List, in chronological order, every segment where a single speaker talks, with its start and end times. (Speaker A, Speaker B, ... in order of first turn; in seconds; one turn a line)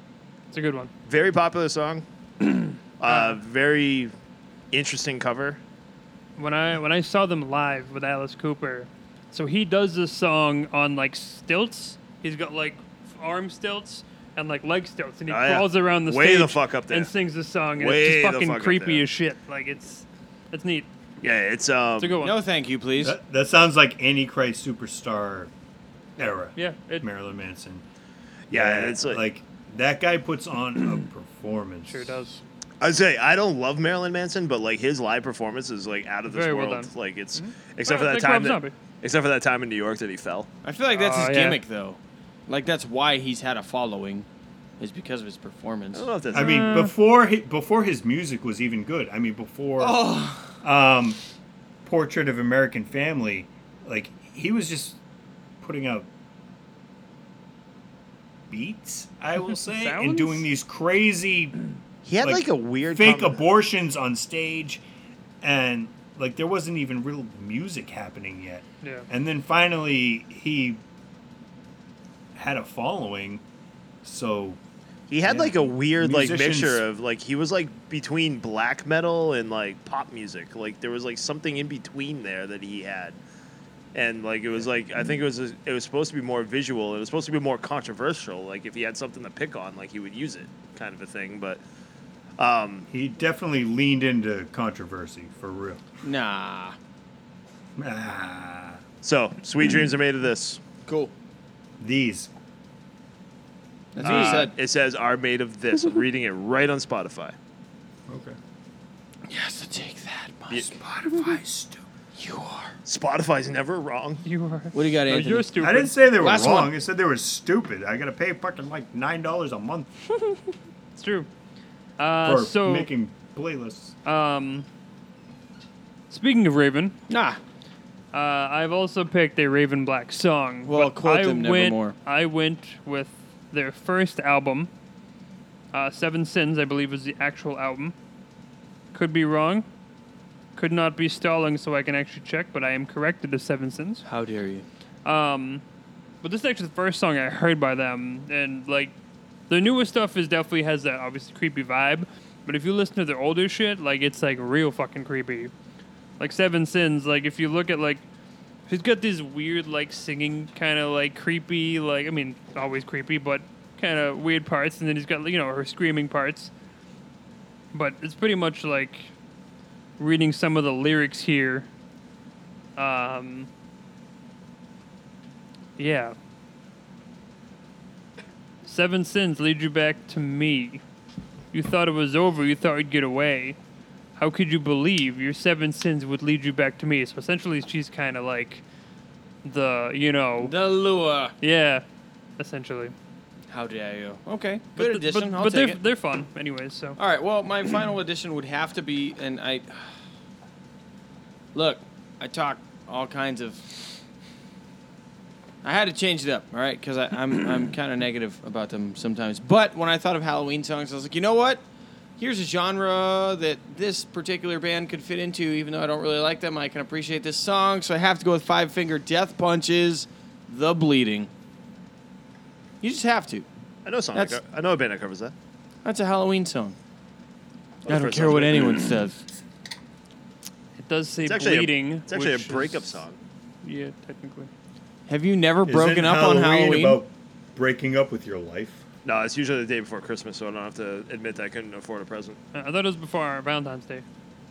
Speaker A: 0.5-0.9
Speaker B: 1.1-2.0
Speaker B: 3.0-4.1
Speaker A: 3.0-3.4
Speaker B: 4.7-5.6
Speaker A: 6.4-20.9
Speaker B: 15.3-17.1
Speaker B: 17.8-19.0
Speaker B: 21.2-22.2
Speaker A: 22.0-22.4
Speaker C: 22.2-23.2
Speaker D: 23.0-25.5
Speaker D: 26.2-27.8
Speaker A: 26.6-27.1
Speaker B: 28.5-29.2
Speaker D: 28.5-32.2
Speaker A: 31.9-32.4
Speaker B: 32.8-40.5
Speaker A: 36.3-38.7
Speaker C: 40.6-44.3
Speaker A: 40.9-41.6
Speaker C: 44.8-46.1
Speaker B: 45.9-46.9
Speaker A: 46.3-46.9
Speaker D: 46.3-51.2
Speaker C: 49.8-50.5
Speaker D: 51.8-55.0
Speaker D: 55.6-56.1
Speaker D: 58.5-61.6
Speaker A: 59.7-60.4
Speaker B: 62.0-63.4
Speaker D: 62.2-64.8
Speaker D: 65.4-70.8
Speaker D: 72.3-73.4
Speaker D: 74.0-74.6
Speaker B: 75.1-83.2
Speaker D: 75.2-76.8
Speaker B: 83.9-91.6
Speaker B: 92.4-92.9
Speaker D: 92.9-95.8
Speaker C: 96.0-96.8
Speaker D: 97.8-98.8
Speaker B: 99.0-100.6
Speaker C: 100.9-101.1
Speaker D: 101.8-102.3
Speaker C: 103.9-104.5
Speaker B: 104.0-107.4
Speaker A: 104.1-104.4
Speaker D: 108.1-108.4
Speaker C: 109.3-110.7
Speaker D: 110.6-111.8
Speaker C: 112.2-112.8
Speaker B: 112.9-114.2
Speaker A: 114.2-115.9
Speaker C: 114.7-115.5
Speaker D: 115.6-119.9
Speaker C: 116.2-116.7
Speaker A: 121.0-121.3
Speaker A: 122.0-122.9
Speaker D: 122.2-124.0
Speaker A: 124.0-124.7
Speaker A: 126.1-126.9
Speaker C: 127.1-127.4
Speaker A: 128.1-134.7
Speaker C: 130.7-132.0
Speaker A: 135.7-137.9
Speaker A: 138.9-139.7
Speaker A: 140.6-144.0
Speaker C: 144.1-144.7
Speaker A: 145.1-145.6
Speaker A: 146.2-148.9
Speaker A: 149.5-155.5
Speaker A: 156.2-158.0
Speaker A: 158.7-166.5
Speaker A: 167.7-169.1
Speaker A: 170.0-171.7
Speaker A: 172.8-173.5
Speaker A: 175.8-176.2
Speaker A: 178.6-180.8
Speaker A: 181.5-183.6
Speaker A: 184.2-188.6
Speaker A: 189.4-190.5
Speaker C: 190.4-191.3
Speaker A: 191.4-191.8
Speaker A: 192.4-192.9
Speaker C: 193.5-195.8
Speaker A: 194.8-197.0
Speaker C: 197.0-200.0
Speaker C: 201.5-203.9
Speaker C: 205.6-211.6
Speaker C: 212.2-221.3
Speaker C: 222.8-223.5
Speaker B: 223.8-225.3
Speaker C: 224.1-224.4
Speaker C: 225.8-226.8
Speaker B: 227.9-228.8
Speaker C: 227.9-229.2
Speaker A: 230.8-233.0
Speaker B: 231.2-233.2
Speaker A: 233.6-234.5
Speaker C: 235.1-237.0
Speaker D: 235.7-238.8
Speaker B: 239.0-242.4
Speaker A: 242.5-244.1